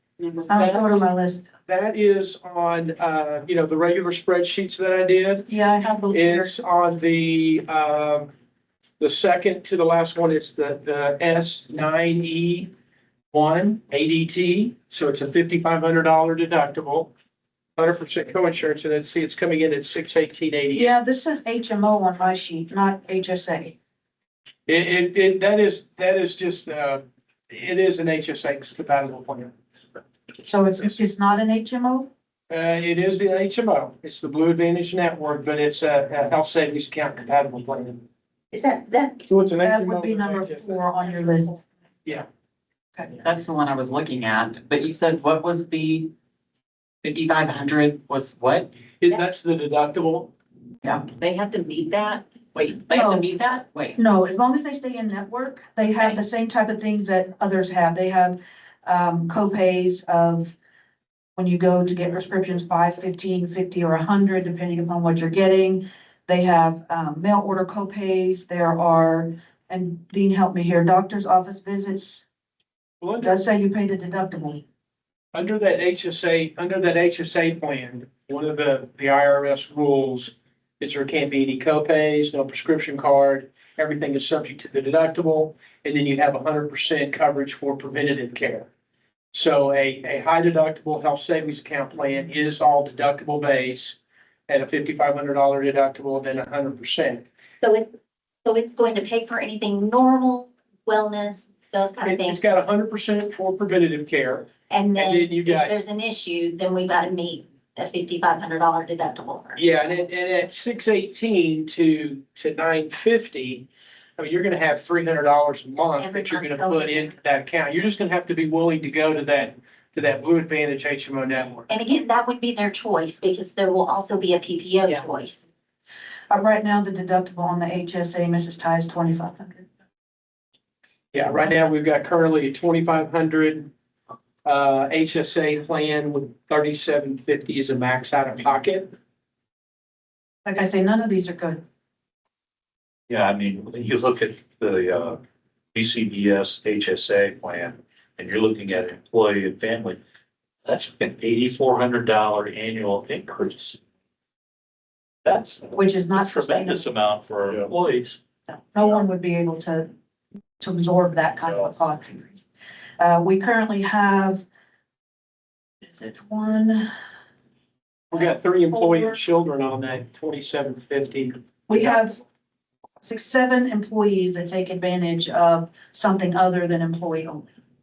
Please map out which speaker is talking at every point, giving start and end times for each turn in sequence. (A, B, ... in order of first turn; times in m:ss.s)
0:00.5-0:01.5 A
0:00.5-0:01.1 B
0:01.6-0:05.5 B
0:05.5-0:06.5 A
0:06.1-0:08.3 B
0:09.0-0:12.7 B
0:13.3-0:17.1 B
0:17.8-0:20.9 B
0:20.7-0:23.8 A
0:24.6-0:29.5 B
0:30.4-0:32.1 A
0:32.5-0:38.0 B
0:38.5-0:39.3 C
0:39.3-0:40.7 B
0:39.6-0:41.6 A
0:43.2-0:46.1 D
0:47.0-0:48.7 D
0:49.0-0:50.3 B
0:52.6-0:54.0 D
0:52.9-0:53.3 A
0:54.0-1:00.5 A
1:01.4-1:12.2 A
1:13.0-1:13.4 B
1:13.2-1:14.6 A
1:15.3-1:28.7 B
1:29.3-1:37.2 B
1:37.6-1:37.9 C
1:38.4-1:42.4 C
1:42.0-1:45.7 B
1:44.7-1:49.6 C
1:49.5-2:01.7 B
1:56.0-1:57.1 C
2:01.7-2:05.4 C
2:06.3-2:09.6 A
2:11.1-2:13.7 B
2:14.4-2:18.9 B
2:20.4-2:21.6 A
2:23.1-2:25.2 E
2:25.7-2:30.0 E
2:30.6-2:33.8 E
2:35.2-2:38.2 E
2:35.7-2:36.8 A
2:38.5-2:39.9 A
2:40.6-2:42.4 A
2:41.5-2:41.7 E
2:43.0-2:44.4 A
2:45.8-2:46.9 A
2:48.1-2:51.8 B
2:51.7-2:52.2 A
2:53.0-2:57.4 A